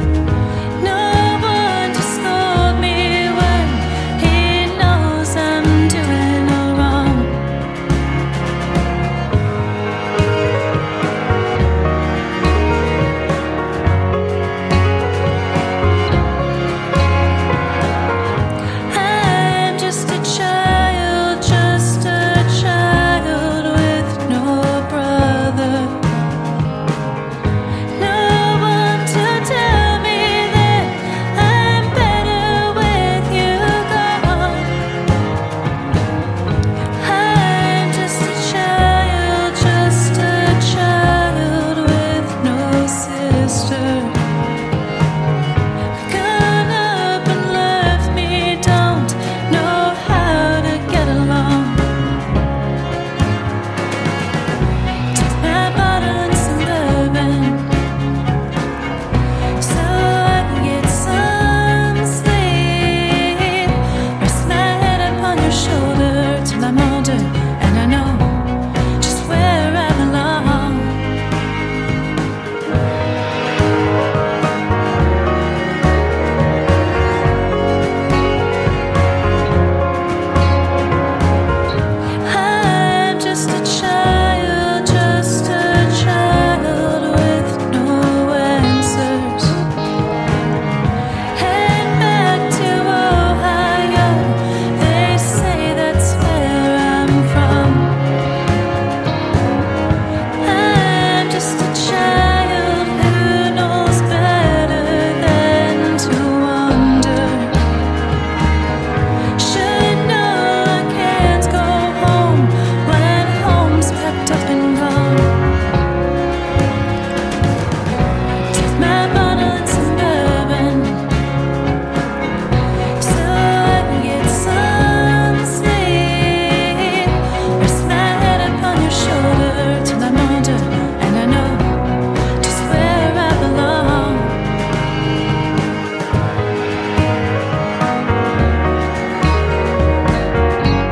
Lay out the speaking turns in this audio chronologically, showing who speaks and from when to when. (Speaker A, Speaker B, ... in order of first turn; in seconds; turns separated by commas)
Speaker A: 0.8-7.4, Speaker A: 18.9-26.0, Speaker A: 27.9-34.8, Speaker A: 37.0-44.2, Speaker A: 45.9-51.8, Speaker A: 55.1-57.7, Speaker A: 59.6-71.0, Speaker A: 82.2-89.6, Speaker A: 91.3-98.0, Speaker A: 100.4-107.6, Speaker A: 109.4-115.3, Speaker A: 118.5-121.0, Speaker A: 123.0-131.8, Speaker A: 132.4-134.4